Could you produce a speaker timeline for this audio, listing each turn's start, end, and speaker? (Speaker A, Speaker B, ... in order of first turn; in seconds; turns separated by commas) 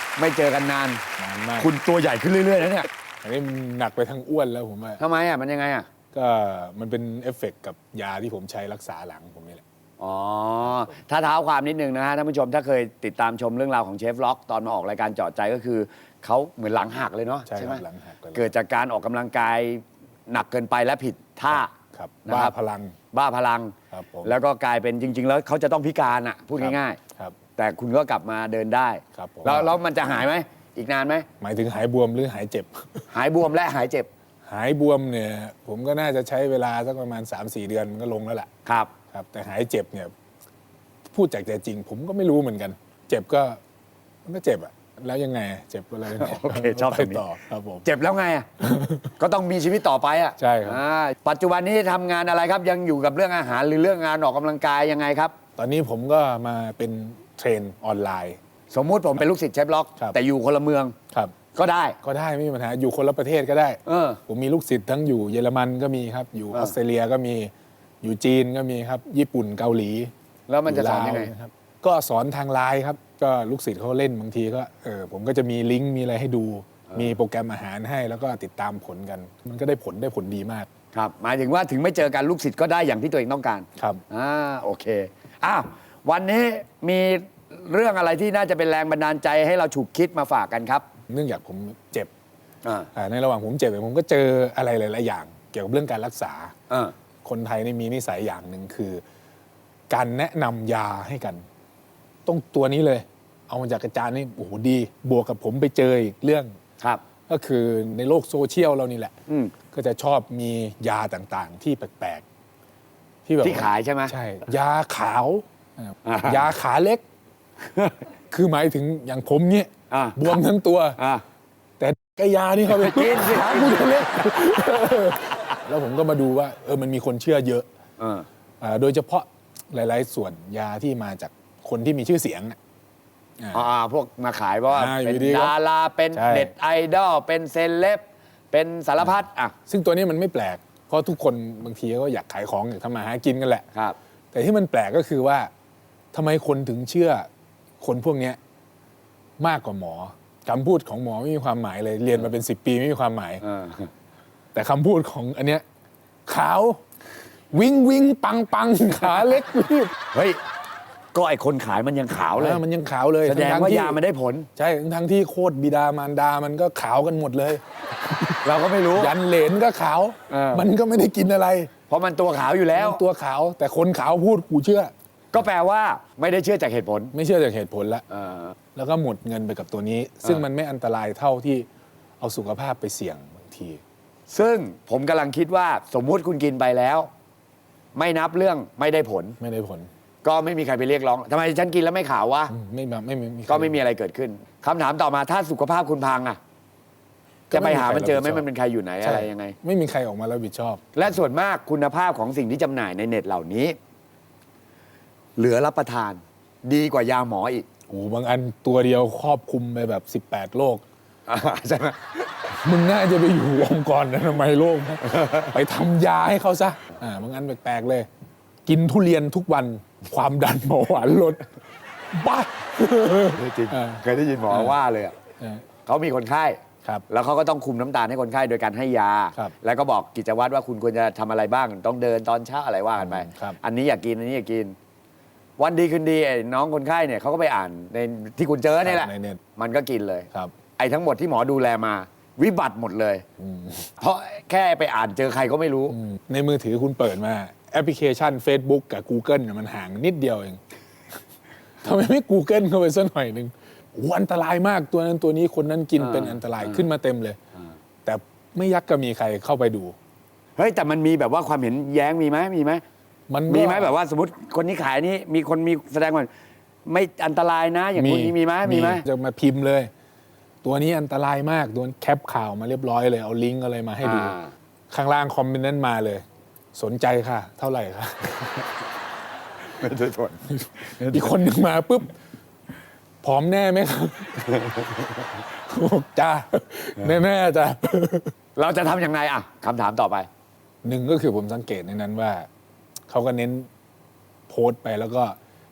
Speaker A: 0.2-1.0, Speaker B: 1.2-1.7, Speaker A: 1.6-2.9, Speaker B: 3.2-5.0, Speaker A: 5.0-5.9, Speaker B: 6.1-9.6, Speaker A: 10.0-21.7, Speaker B: 17.5-18.5, Speaker B: 21.5-22.9, Speaker A: 22.2-22.5, Speaker A: 23.1-27.0, Speaker B: 23.9-24.3, Speaker B: 26.6-27.3, Speaker A: 27.6-31.2, Speaker B: 29.1-29.7, Speaker B: 31.4-33.0, Speaker A: 33.1-34.1, Speaker B: 34.5-38.5, Speaker A: 38.6-38.9, Speaker B: 39.1-40.1, Speaker B: 41.0-43.6, Speaker B: 44.2-47.8, Speaker A: 46.1-47.2, Speaker A: 47.8-48.5, Speaker B: 48.6-49.1, Speaker A: 49.2-55.3, Speaker B: 50.4-50.8, Speaker B: 55.6-58.4, Speaker A: 58.7-61.0, Speaker A: 61.5-62.0, Speaker B: 62.0-67.5, Speaker A: 63.9-64.2, Speaker B: 68.0-70.1, Speaker A: 70.5-71.3, Speaker B: 70.7-80.7, Speaker A: 80.9-90.8, Speaker B: 91.1-92.1, Speaker A: 92.6-92.9, Speaker B: 92.9-96.5, Speaker A: 96.7-96.9, Speaker B: 97.2-99.0, Speaker B: 99.9-101.4, Speaker B: 102.2-106.5, Speaker B: 107.3-109.1, Speaker A: 109.3-109.5, Speaker B: 109.7-112.2, Speaker B: 113.2-117.0, Speaker A: 113.4-114.1, Speaker A: 116.0-116.5, Speaker A: 117.6-118.0, Speaker B: 118.3-121.0, Speaker A: 119.9-120.4, Speaker A: 121.0-121.2, Speaker B: 121.8-127.7, Speaker A: 122.7-124.5, Speaker A: 128.0-128.2, Speaker B: 128.6-132.6, Speaker B: 133.4-133.7, Speaker A: 133.5-139.5, Speaker B: 134.7-135.5, Speaker B: 136.1-136.5, Speaker B: 139.7-143.6, Speaker B: 144.3-145.5, Speaker B: 146.1-147.3, Speaker B: 147.8-148.4, Speaker B: 149.4-153.4, Speaker A: 153.4-153.9, Speaker B: 154.5-155.6, Speaker B: 156.3-156.8, Speaker B: 157.5-159.9, Speaker A: 160.1-160.4, Speaker A: 161.1-162.6, Speaker B: 162.3-164.0, Speaker A: 163.2-164.5, Speaker B: 164.6-168.4, Speaker A: 168.4-169.1, Speaker B: 168.9-171.7, Speaker A: 170.3-170.7, Speaker A: 171.9-173.0, Speaker B: 172.7-174.9, Speaker A: 175.3-177.1, Speaker B: 177.1-178.0, Speaker A: 178.1-178.5, Speaker B: 178.7-181.7, Speaker B: 182.2-183.8, Speaker A: 184.3-187.1, Speaker A: 187.9-189.4, Speaker B: 189.4-189.9, Speaker A: 190.2-192.5, Speaker B: 192.5-193.8, Speaker A: 193.5-196.4, Speaker B: 197.5-198.4, Speaker A: 197.5-199.6, Speaker B: 199.0-200.9, Speaker A: 200.9-203.8, Speaker A: 205.4-207.7, Speaker B: 207.9-210.8, Speaker A: 211.3-212.2, Speaker B: 212.6-218.1, Speaker A: 215.1-215.5, Speaker B: 218.7-221.5, Speaker B: 222.1-224.8, Speaker A: 223.3-225.2, Speaker A: 225.8-234.7, Speaker B: 233.0-233.6, Speaker A: 235.6-243.2, Speaker B: 238.8-239.4, Speaker B: 243.4-243.9, Speaker A: 244.0-246.0, Speaker B: 245.9-250.6, Speaker B: 251.8-257.4, Speaker A: 256.0-256.9, Speaker B: 258.0-259.9, Speaker A: 260.6-262.8, Speaker B: 263.3-263.9, Speaker A: 263.5-266.3, Speaker A: 266.9-269.0, Speaker B: 267.9-269.9, Speaker B: 270.6-274.3, Speaker A: 274.0-274.5, Speaker B: 274.9-278.7, Speaker A: 279.7-281.3, Speaker B: 280.5-282.1, Speaker B: 283.2-288.3, Speaker A: 284.6-284.9, Speaker A: 288.6-290.3, Speaker B: 290.8-292.5, Speaker B: 293.1-293.7, Speaker B: 294.5-295.4